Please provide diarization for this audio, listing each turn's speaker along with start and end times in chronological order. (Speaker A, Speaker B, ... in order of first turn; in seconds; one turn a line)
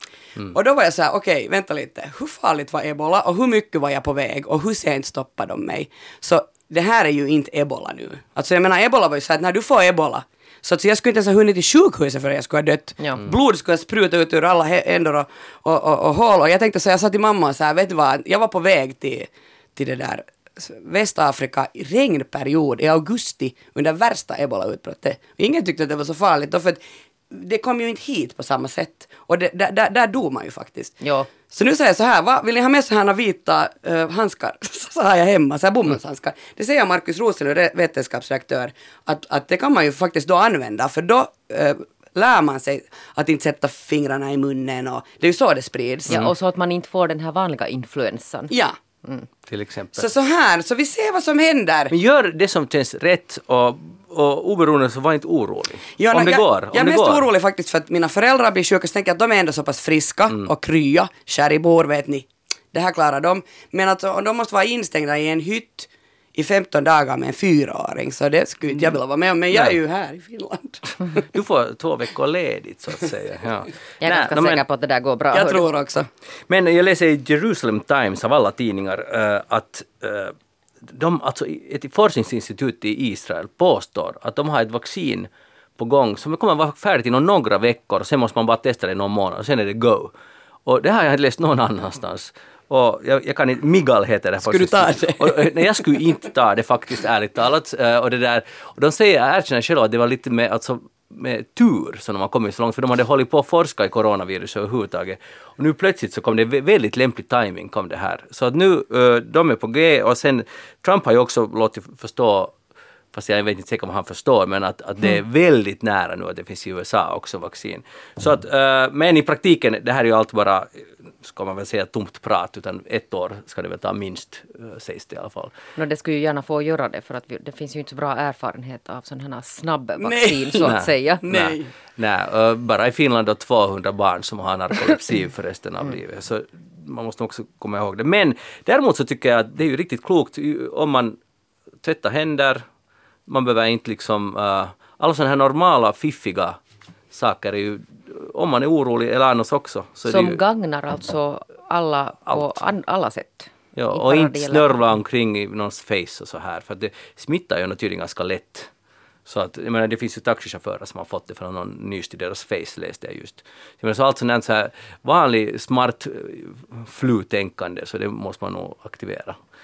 Speaker A: 0.5-46.2
Speaker B: 31.0-31.3
Speaker B: 46.1-48.5
Speaker A: 48.5-48.8
Speaker C: 49.5-50.1
Speaker A: 49.9-51.9
Speaker C: 51.9-57.3
Speaker A: 56.0-71.3
Speaker C: 69.5-69.8
Speaker C: 71.2-74.6
Speaker B: 74.0-75.6
Speaker A: 75.3-76.1
Speaker C: 76.5-90.1
Speaker C: 90.7-112.5
Speaker A: 94.4-95.8
Speaker C: 113.1-125.5
Speaker B: 125.8-131.4
Speaker A: 130.0-131.7
Speaker C: 130.6-141.2
Speaker C: 141.8-142.7
Speaker C: 143.3-146.6
Speaker C: 147.1-150.4
Speaker B: 150.1-154.8
Speaker C: 153.8-158.7
Speaker C: 159.3-169.4